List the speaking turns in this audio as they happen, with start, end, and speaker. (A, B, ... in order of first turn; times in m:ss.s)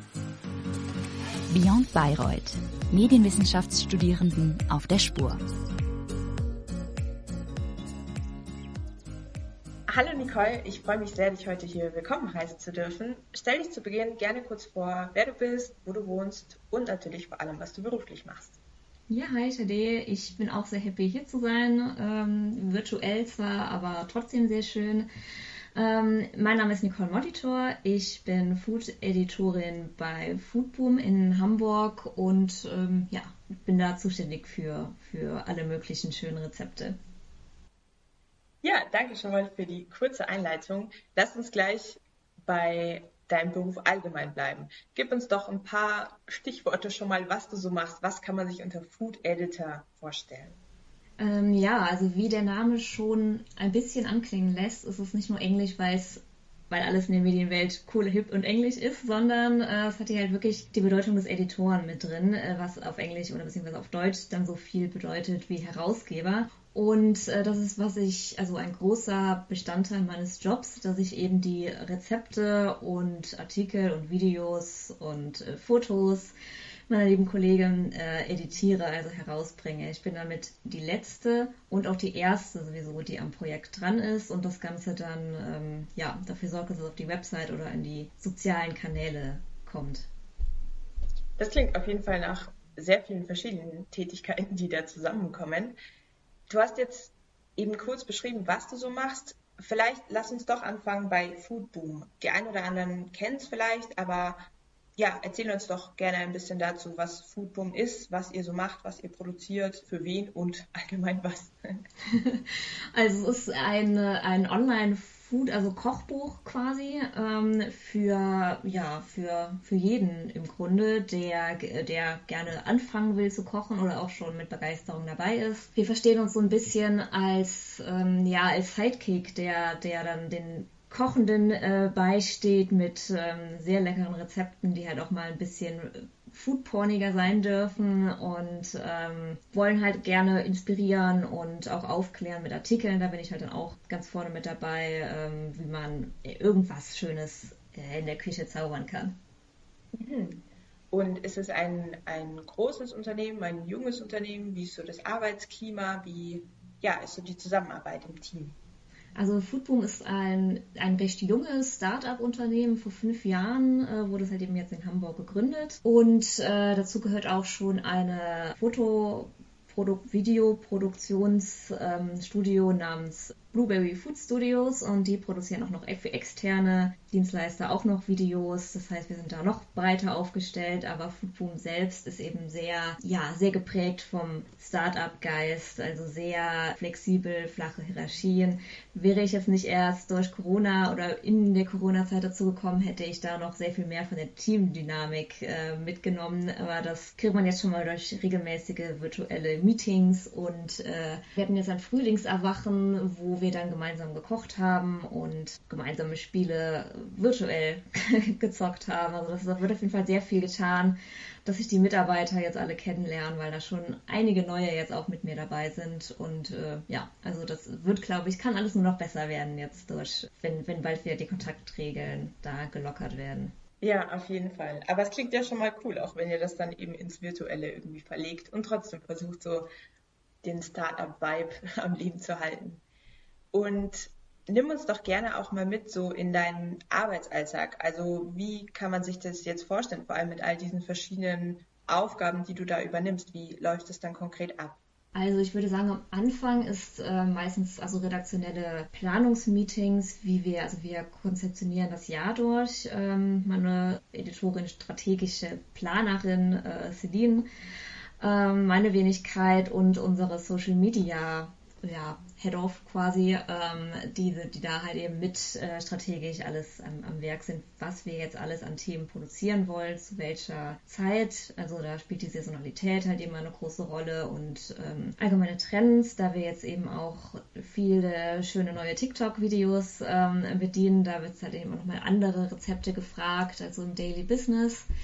0:01.5-0:05.4 A
0:09.9-0:18.6 B
0:19.1-0:25.1 C
0:25.7-0:37.0 C
0:38.6-0:50.6 B
0:51.2-1:16.3 C
1:16.9-1:30.1 C
1:31.4-1:35.8 B
1:36.5-1:51.8 B
1:52.1-2:29.2 C
2:29.9-2:38.6 B
2:39.2-3:43.5 C
3:43.8-3:49.7 B
3:50.4-3:52.8 B
3:53.5-4:04.8 B
4:05.1-4:17.5 C
4:18.2-4:44.9 C